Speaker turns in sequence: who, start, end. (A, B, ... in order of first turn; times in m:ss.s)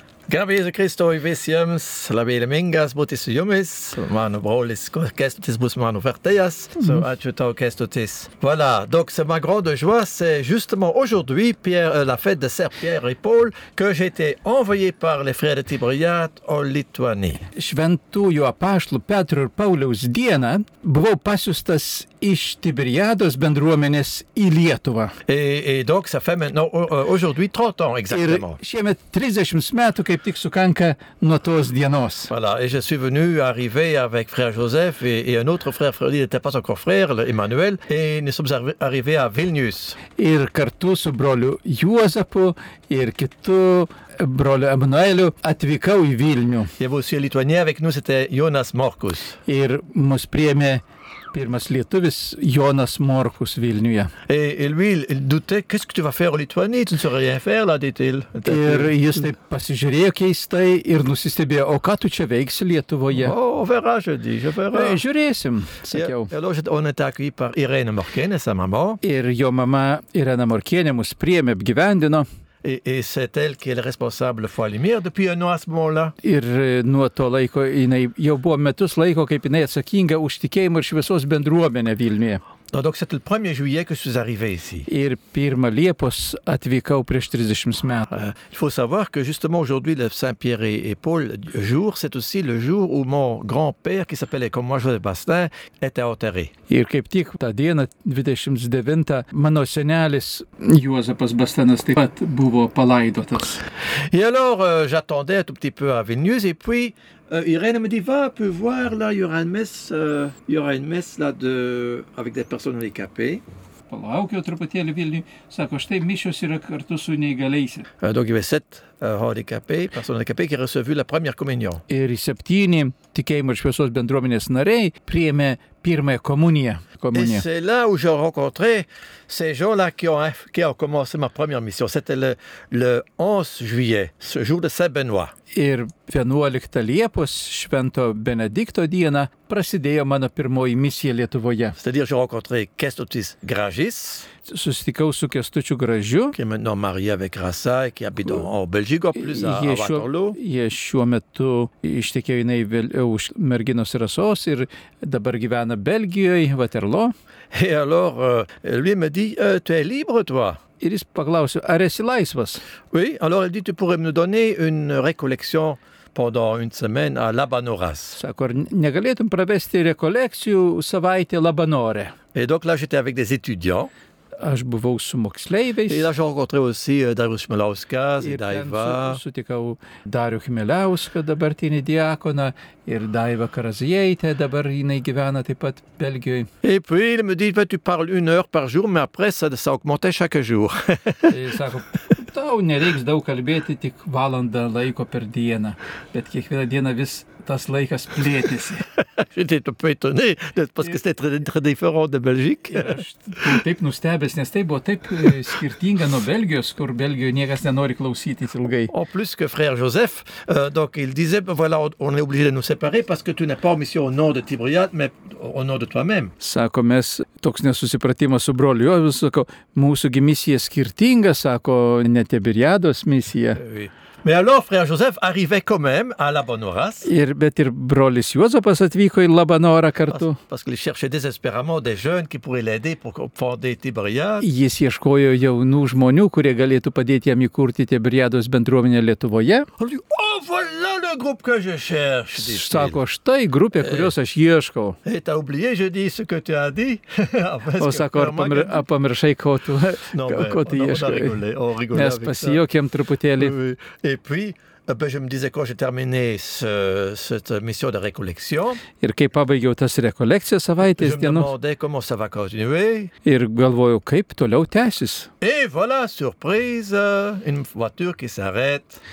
0:00.3-0:17.5 A
0:17.5-0:25.2 B
0:25.2-0:28.6 A
0:28.1-0:32.3 B
0:32.3-0:40.0 A
0:40.1-0:46.7 B
0:46.8-0:49.4 A
0:49.4-0:50.8 B
0:51.3-0:54.1 B
0:54.3-0:59.2 A
0:58.4-1:03.3 B
1:03.1-1:05.0 A
1:04.7-1:06.3 B
1:05.9-1:09.0 A
1:09.0-1:12.2 B
1:12.6-1:16.1 A
1:16.2-1:22.4 B
1:22.7-1:24.9 A
1:24.9-1:28.1 B
1:28.1-1:36.5 A
1:36.7-1:43.6 B
1:44.1-1:53.4 A
1:53.9-1:57.9 B
1:58.0-2:01.8 A
2:01.9-2:07.4 B
2:07.1-2:15.3 A
2:15.5-2:21.8 B
2:21.8-2:24.3 A
2:24.4-2:26.4 B
2:26.3-2:30.4 A
2:29.1-2:37.1 B
2:37.5-2:40.6 A
2:40.8-2:42.6 B
2:42.9-2:48.2 A
2:48.1-2:52.1 B
2:52.3-2:53.9 A
2:54.4-2:56.1 B
2:55.9-2:59.2 A
2:58.2-3:06.5 B
3:06.6-3:11.4 A
3:11.3-3:18.8 B
3:19.0-3:23.0 A
3:22.7-3:28.9 B
3:28.9-3:36.3 A
3:36.4-3:43.6 B
3:43.6-3:47.1 A
3:47.0-3:50.4 B
3:50.1-3:54.4 A
3:54.4-3:59.7 B
3:59.8-4:03.0 A
4:02.4-4:05.0 B
4:03.7-4:04.1 A
4:05.0-4:08.8 A
4:07.8-4:11.4 B
4:10.1-4:12.6 A
4:11.9-4:13.5 B
4:13.4-4:18.8 A
4:19.0-4:21.5 B
4:20.8-4:23.1 A
4:23.2-4:25.3 B
4:25.4-4:29.0 A